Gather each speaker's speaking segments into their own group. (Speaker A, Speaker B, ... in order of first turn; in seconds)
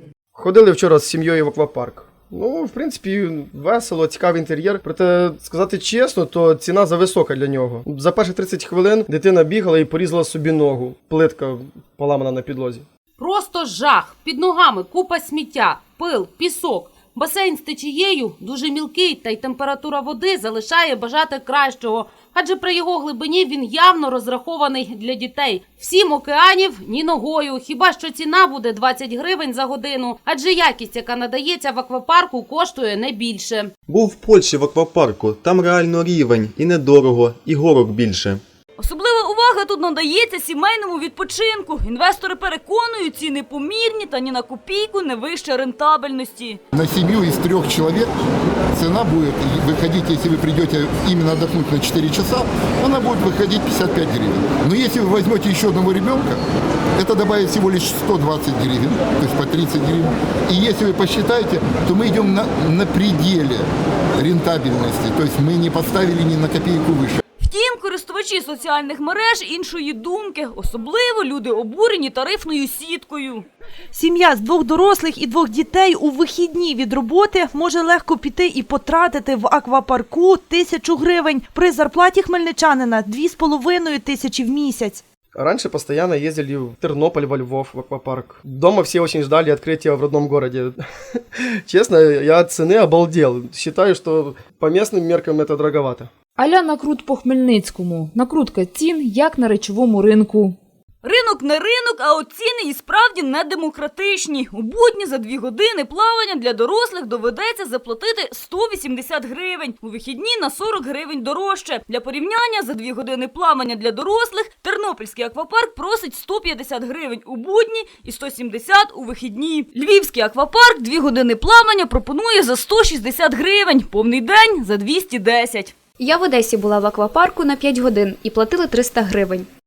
Speaker A: 0.3-12.8, 85.3-90.8, 91.4-96.1
Speaker B: 13.2-33.7
Speaker C: 33.9-38.4
Speaker D: 38.8-46.6, 67.4-73.5, 101.0-125.7
Speaker E: 46.7-48.1, 48.7-56.4, 57.0-63.6, 64.2-67.2
Speaker F: 73.9-85.0
Speaker G: 96.4-100.5
Speaker H: 126.0-129.5